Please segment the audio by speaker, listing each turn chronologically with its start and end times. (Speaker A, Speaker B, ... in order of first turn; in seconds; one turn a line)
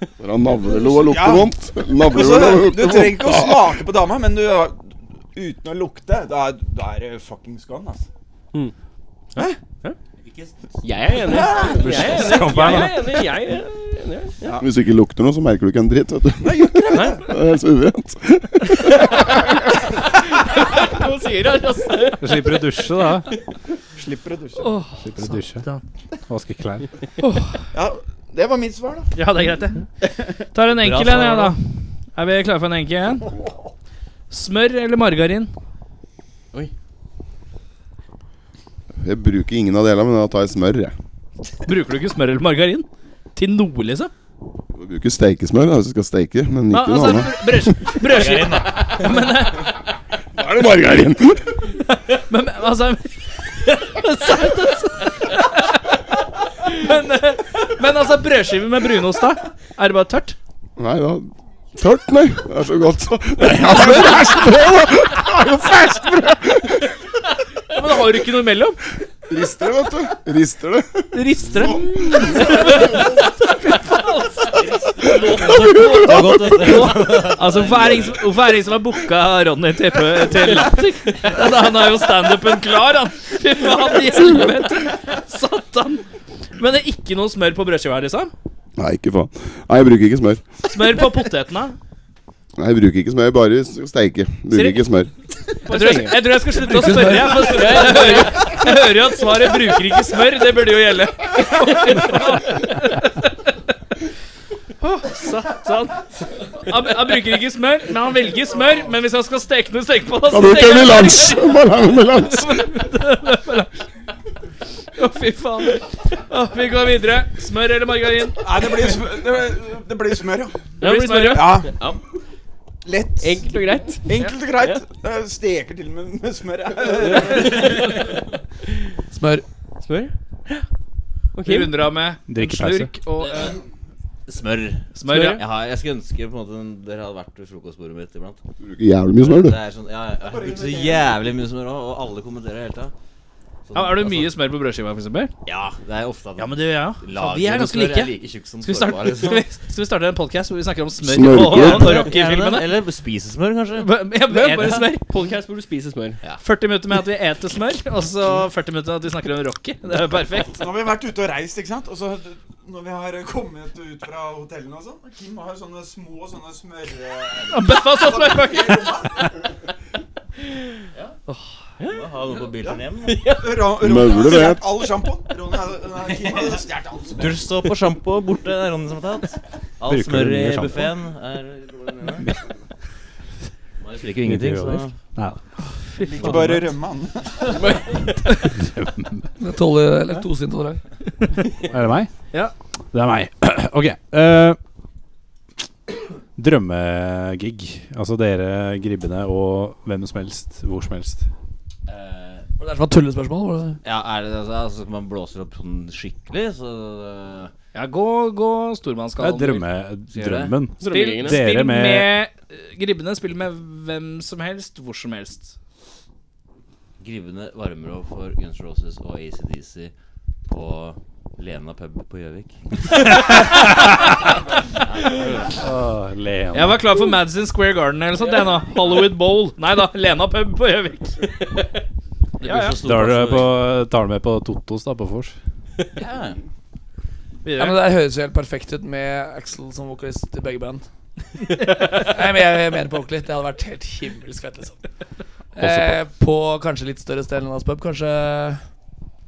Speaker A: 0.2-3.8
Speaker B: 0.6-1.5
Speaker B: 2.1-8.1
Speaker C: 9.3-10.0
Speaker D: 10.2-10.6
Speaker C: 10.8-14.5
Speaker B: 11.2-12.4
Speaker E: 11.8-12.9
Speaker B: 14.4-14.7
Speaker A: 14.6-19.6
Speaker B: 16.4-17.3
Speaker C: 16.9-17.2
Speaker C: 20.0-22.6
Speaker F: 22.2-23.3
Speaker B: 23.9-24.8
Speaker E: 24.6-25.8
Speaker F: 25.0-25.6
Speaker F: 26.3-26.9
Speaker E: 27.2-27.6
Speaker B: 27.7-29.1
Speaker E: 29.1-29.8
Speaker B: 30.0-30.4
Speaker E: 30.5-33.3
Speaker D: 30.7-31.6
Speaker E: 34.3-35.5
Speaker A: 39.0-40.9
Speaker E: 41.6-44.1
Speaker A: 44.7-47.9
Speaker E: 46.7-49.7
Speaker D: 48.1-49.2
Speaker A: 50.3-51.5
Speaker E: 52.1-56.0
Speaker E: 56.6-60.4
Speaker A: 60.8-66.9
Speaker E: 67.7-68.8
Speaker A: 69.3-73.3
Speaker E: 71.1-86.0
Speaker D: 74.5-78.3
Speaker A: 75.0-76.6
Speaker A: 84.1-84.8
Speaker E: 86.5-88.3
Speaker A: 88.8-90.4
Speaker E: 90.7-91.8
Speaker A: 92.6-95.1
Speaker E: 94.5-94.8
Speaker E: 95.6-103.3
Speaker C: 95.7-96.2
Speaker G: 96.5-98.0
Speaker C: 96.9-98.6
Speaker E: 104.8-111.6
Speaker A: 110.3-112.7
Speaker E: 112.2-113.7
Speaker E: 114.9-118.4
Speaker B: 118.4-120.7
Speaker E: 120.8-121.5
Speaker C: 120.8-122.0
Speaker B: 121.2-121.8
Speaker B: 122.8-128.0
Speaker C: 123.2-124.8
Speaker C: 127.0-128.1
Speaker G: 129.1-129.4
Speaker C: 129.8-130.7
Speaker C: 131.3-131.7
Speaker E: 131.4-133.5
Speaker F: 132.3-132.9
Speaker D: 133.2-133.6
Speaker D: 134.3-138.4
Speaker E: 134.9-135.4
Speaker C: 135.1-135.4
Speaker A: 138.6-139.6
Speaker D: 139.2-142.9
Speaker B: 140.2-141.3
Speaker D: 143.7-144.3
Speaker E: 143.7-145.3
Speaker D: 145.4-149.4
Speaker E: 146.4-152.7
Speaker A: 151.0-152.1
Speaker D: 151.4-153.9
Speaker E: 153.8-155.0
Speaker C: 154.3-156.2
Speaker E: 156.4-160.6
Speaker B: 160.5-169.3
Speaker E: 167.5-168.9
Speaker D: 171.8-173.3
Speaker B: 172.6-177.5
Speaker C: 173.0-173.5
Speaker A: 173.8-174.7
Speaker D: 176.1-182.3
Speaker F: 179.8-180.9
Speaker D: 183.8-184.9
Speaker F: 184.2-185.4
Speaker E: 185.8-186.6
Speaker B: 186.0-187.7
Speaker D: 186.2-186.6
Speaker F: 188.6-189.3
Speaker G: 189.4-190.8
Speaker F: 191.7-192.1
Speaker F: 192.9-194.6
Speaker F: 196.3-201.2
Speaker D: 201.9-202.5
Speaker G: 202.6-203.8
Speaker D: 203.8-207.5
Speaker E: 207.7-209.6
Speaker F: 209.2-212.1
Speaker D: 210.1-210.6
Speaker C: 210.8-211.4
Speaker E: 210.8-215.5
Speaker D: 217.0-219.9
Speaker D: 220.5-223.2
Speaker E: 223.0-224.2
Speaker D: 224.7-225.6
Speaker F: 225.4-226.8
Speaker E: 226.5-231.2
Speaker D: 232.4-233.6
Speaker E: 232.4-232.8
Speaker F: 232.8-235.3
Speaker D: 235.9-236.4
Speaker E: 237.4-237.8
Speaker G: 237.5-240.8
Speaker G: 241.5-244.8
Speaker G: 245.6-248.6
Speaker F: 245.6-245.9